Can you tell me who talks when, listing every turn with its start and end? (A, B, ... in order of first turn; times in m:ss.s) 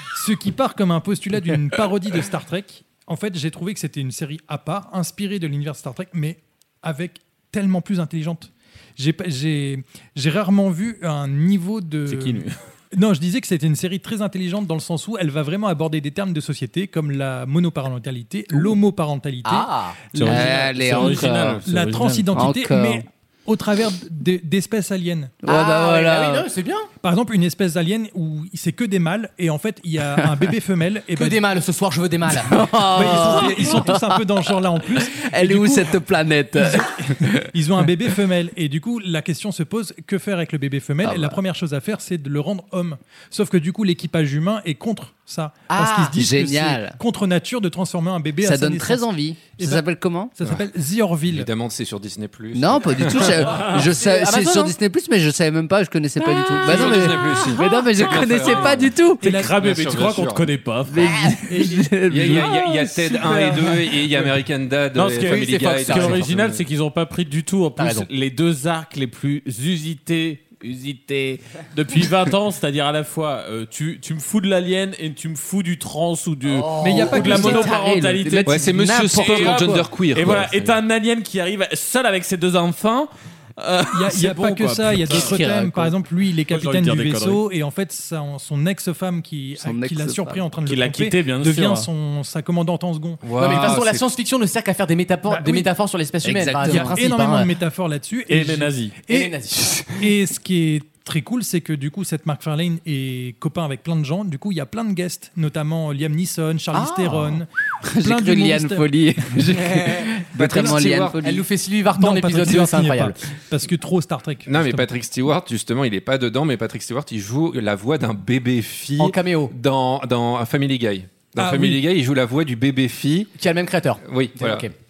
0:00.1-0:25.3 A
0:12.1-0:12.5 B
0:19.4-0:20.0 C
0:20.1-0:22.5 B
0:20.2-0:21.6 D
0:22.3-0:23.0 D
0:25.4-0:26.4 D
0:25.4-0:26.9 C
0:27.0-0:31.4 A
0:31.1-0:33.8 C
0:32.4-0:34.0 D
0:32.9-0:36.0 A
0:35.2-0:37.4 D
0:36.6-0:36.9 A
0:37.5-0:49.0 A
0:41.0-0:41.4 D
0:45.7-0:47.0 D
0:48.4-0:50.3 D
0:49.6-0:49.8 A
0:50.4-0:51.5 A
0:51.3-0:53.6 E
0:52.5-0:59.2 D
0:53.3-0:54.7 C
0:56.6-0:59.0 E
0:59.2-1:01.2 B
0:59.2-0:59.6 A
0:59.5-1:00.5 E
1:00.9-1:03.7 D
1:01.5-1:02.6 A
1:02.1-1:06.6 E
1:03.2-1:04.3 A
1:04.9-1:25.4 B
1:05.2-1:06.6 C
1:07.8-1:08.1 C
1:16.6-1:19.8 D
1:16.8-1:17.5 C
1:16.8-1:17.7 A
1:18.4-1:20.7 E
1:23.9-1:33.8 A
1:25.1-1:25.9 D
1:26.5-1:27.4 B
1:29.6-1:30.4 D
1:30.6-1:31.9 B
1:33.2-1:34.1 E
1:33.4-1:37.5 C
1:35.3-1:35.7 A
1:36.2-1:37.0 D
1:36.6-1:39.3 A
1:38.3-1:38.9 B
1:39.1-1:40.1 C
1:40.0-1:50.8 A
1:46.7-1:51.4 D
1:50.4-1:51.2 E
1:51.2-1:53.2 C
1:52.0-1:54.9 A
1:54.5-2:03.3 E
1:59.0-1:59.5 C
2:01.4-2:01.8 A
2:03.4-2:04.7 C
2:04.0-2:04.7 E